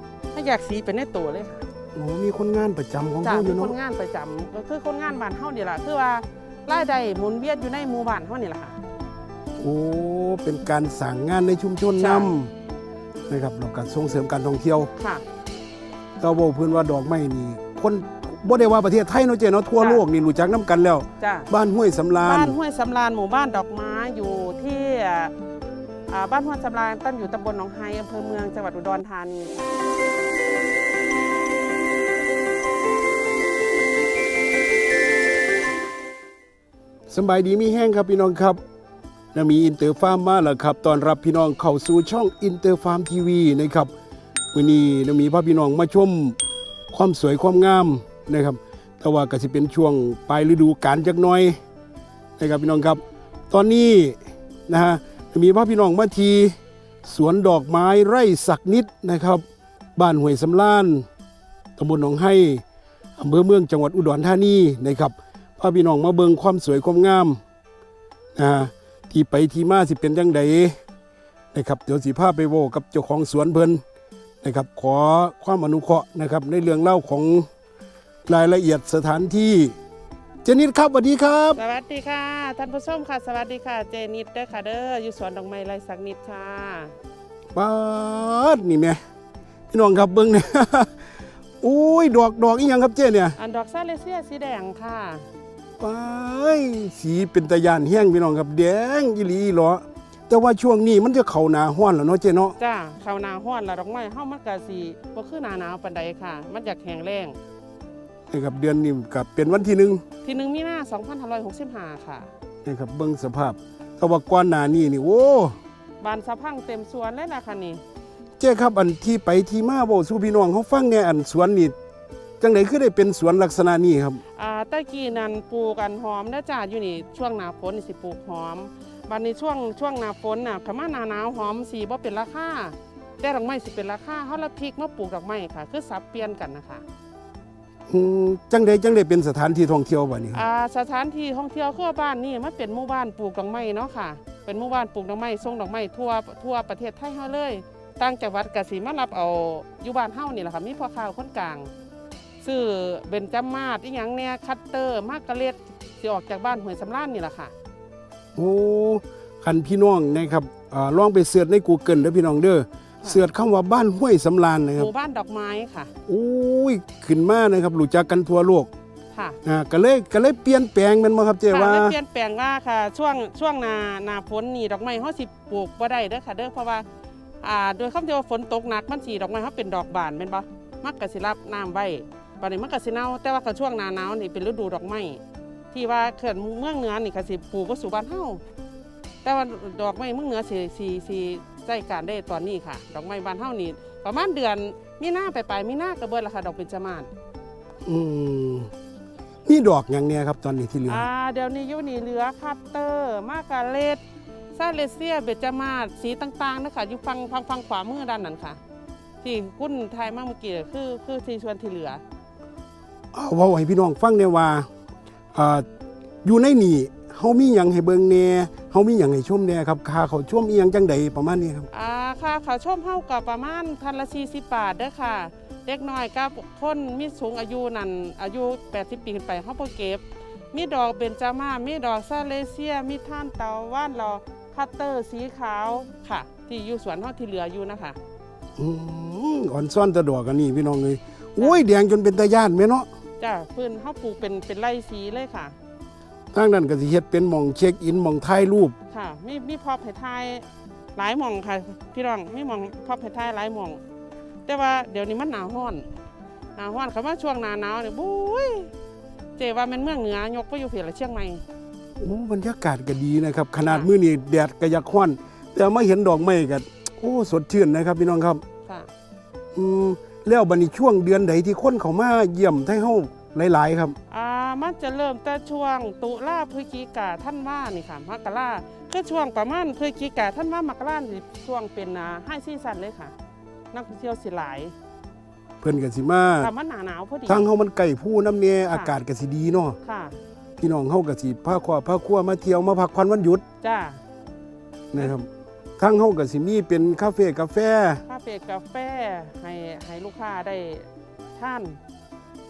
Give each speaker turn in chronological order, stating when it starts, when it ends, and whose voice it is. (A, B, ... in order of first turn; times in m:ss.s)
0:00.3-0:01.6 A
0:02.0-0:03.8 B
0:03.2-0:08.8 A
0:09.6-0:12.5 B
0:12.0-0:12.3 A
0:13.3-0:14.9 B
0:15.0-0:15.2 A
0:16.2-0:22.6 B
0:21.2-0:21.5 A
0:22.2-0:25.3 A
0:26.1-0:29.7 A
0:37.1-0:38.6 B
0:39.3-0:43.9 B
0:44.5-0:46.4 B
0:46.9-0:51.6 B
0:52.4-0:59.4 B
1:00.0-1:01.1 B
1:01.8-1:02.6 B
1:03.2-1:07.4 B
1:08.4-1:10.8 B
1:11.5-1:13.8 B
1:14.4-1:17.5 B
1:18.3-1:19.8 B
1:20.4-1:21.6 B
1:21.6-1:26.9 A
1:27.6-1:29.0 B
1:29.7-1:31.0 B
1:31.6-1:33.4 B
1:33.4-1:35.3 A
1:35.8-1:42.6 B
1:42.6-1:47.4 A
1:48.3-1:50.0 B
1:50.2-1:52.3 A
1:52.6-1:55.6 B
1:56.0-1:57.8 A
1:58.4-2:01.7 B
2:02.4-2:04.2 B
2:04.3-2:16.8 A
2:17.9-2:20.4 B
2:20.3-2:31.7 A
2:32.4-2:37.5 A
2:38.4-2:44.9 B
2:44.8-2:45.9 A
2:46.1-2:48.7 B
2:49.4-2:52.0 B
2:51.5-2:56.8 A
2:57.4-3:05.2 A
3:05.7-3:08.4 A
3:09.2-3:17.1 A
3:17.8-3:18.7 B
3:19.5-3:21.1 B
3:20.9-3:24.0 A
3:24.6-3:28.6 A
3:29.2-3:32.0 A
3:33.1-3:34.7 B
3:35.3-3:35.7 B
3:36.2-3:41.7 B
3:41.7-3:58.0 A
3:58.6-4:02.9 B
4:03.2-4:05.5 A
4:06.3-4:08.8 B
4:08.9-4:13.8 A
4:14.4-4:15.9 A
4:16.6-4:18.7 A
4:19.4-4:21.4 A
4:22.0-4:28.4 B
4:23.6-4:23.9 A
4:28.6-4:28.9 A
4:29.6-4:34.0 B
4:34.1-4:43.1 A
4:43.7-4:44.7 A
4:45.6-4:46.5 B
4:46.4-4:47.5 A
4:47.3-4:49.8 B
4:48.7-4:49.0 A
4:49.8-4:50.2 A
4:50.6-4:53.4 B
4:53.6-4:54.0 A
4:54.9-4:55.3 B
4:55.8-4:58.0 B
4:58.1-5:01.8 A